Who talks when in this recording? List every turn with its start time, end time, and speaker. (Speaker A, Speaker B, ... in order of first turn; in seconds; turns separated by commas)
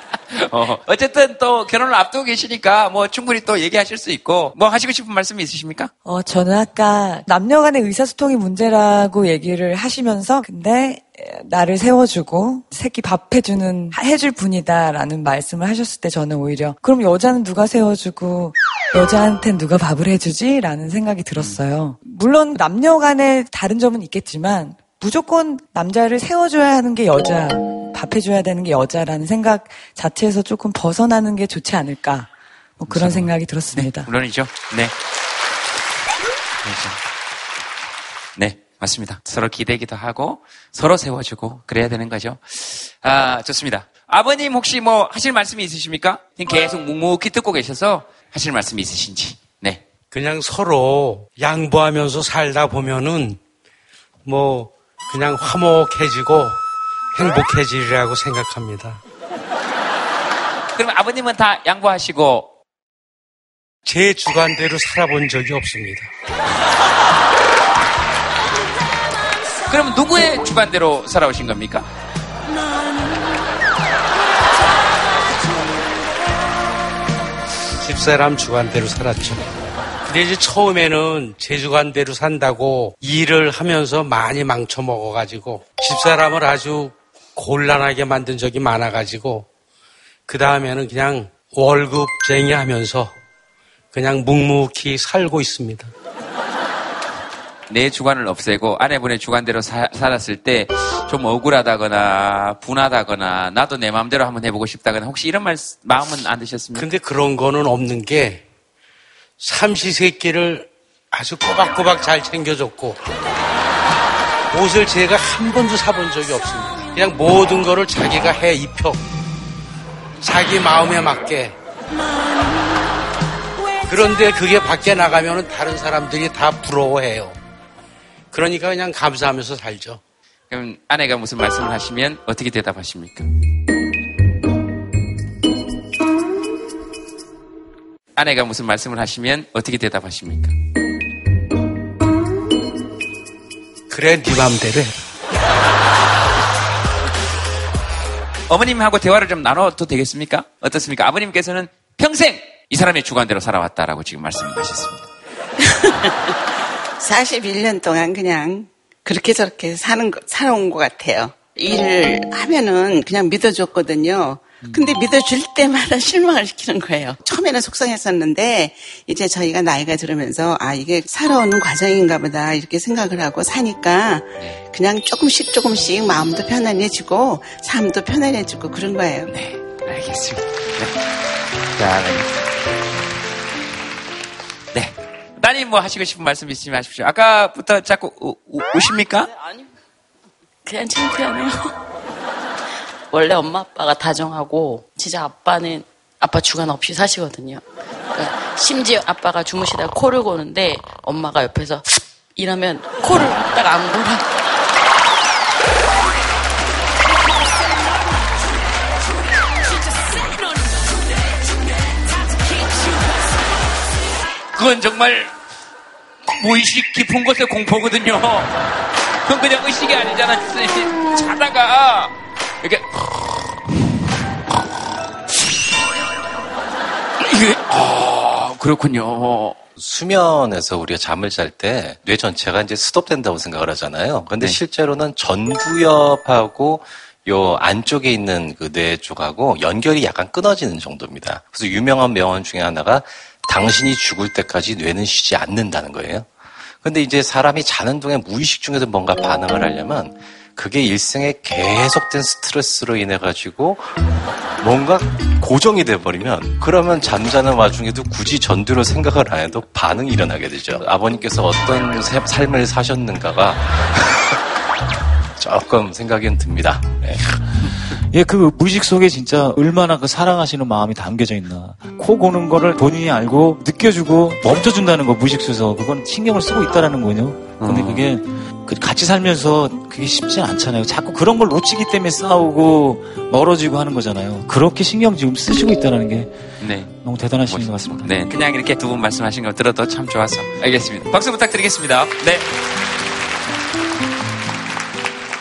Speaker A: 0.3-5.9, Speaker B: 6.0-32.3, Speaker A: 21.4-21.6, Speaker B: 32.8-34.1, Speaker A: 32.9-34.9, Speaker A: 36.6-37.0, Speaker A: 38.4-49.8, Speaker C: 50.1-53.4, Speaker C: 54.3-56.6, Speaker C: 57.1-59.0, Speaker A: 60.8-62.5, Speaker C: 63.9-66.1, Speaker A: 69.7-71.9, Speaker C: 77.8-79.4, Speaker C: 80.1-89.5, Speaker C: 90.3-93.1, Speaker C: 93.9-95.9, Speaker A: 97.7-106.9, Speaker C: 106.8-108.4, Speaker C: 109.4-113.0, Speaker C: 114.5-119.0, Speaker C: 120.2-121.5, Speaker C: 123.9-127.4, Speaker C: 128.3-130.0, Speaker A: 130.5-133.3, Speaker A: 138.2-140.5, Speaker C: 143.9-144.9, Speaker A: 148.5-155.1, Speaker D: 157.0-179.3, Speaker A: 164.6-164.9, Speaker A: 179.3-181.0, Speaker A: 181.8-182.5, Speaker A: 184.7-189.3, Speaker E: 189.4-189.7, Speaker E: 190.7-191.8, Speaker E: 193.1-197.6, Speaker E: 198.1-204.3, Speaker A: 214.6-215.3, Speaker A: 216.3-218.5, Speaker A: 219.3-223.6, Speaker A: 227.2-229.6, Speaker F: 229.8-246.3, Speaker F: 246.8-253.9, Speaker F: 254.6-264.2, Speaker F: 265.4-267.3, Speaker G: 268.1-286.4, Speaker A: 277.6-278.1, Speaker A: 286.6-286.9, Speaker G: 287.0-288.3, Speaker A: 287.5-292.5